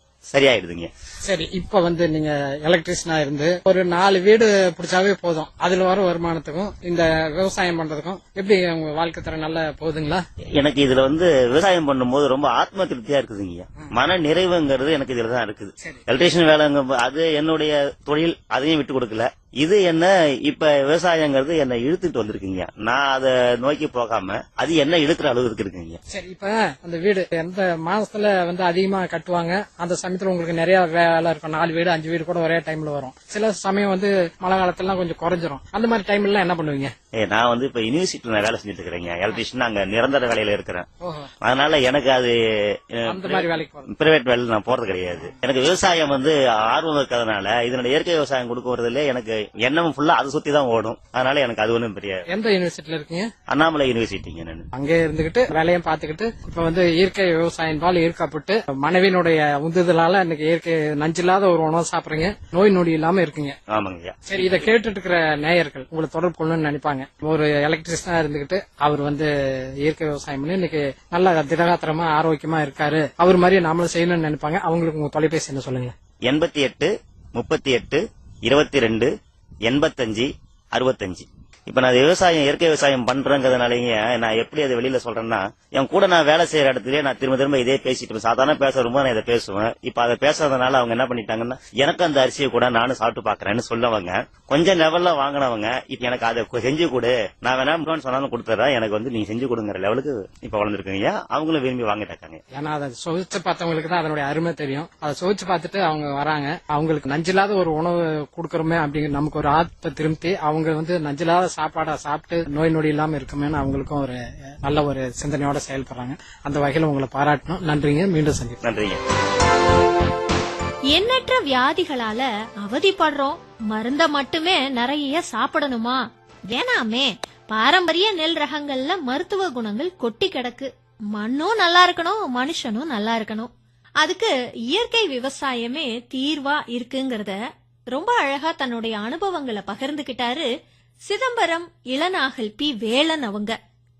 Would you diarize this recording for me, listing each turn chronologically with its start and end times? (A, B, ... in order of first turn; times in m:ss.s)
0:00.3-0:00.9 A
0:01.2-0:10.2 B
0:10.6-0:26.0 A
0:26.1-0:36.9 B
0:37.2-0:40.8 A
0:41.0-0:41.3 B
0:41.4-0:52.2 A
0:43.1-0:43.9 B
0:52.3-0:53.3 B
0:53.5-0:54.7 A
0:54.7-1:03.6 B
1:03.7-1:04.6 A
1:04.3-1:15.9 B
1:16.2-1:19.1 A
1:19.6-1:42.4 A
1:42.5-1:58.6 B
1:58.6-1:59.0 A
2:00.9-2:17.4 C
2:17.9-2:20.5 C
2:21.1-2:23.6 C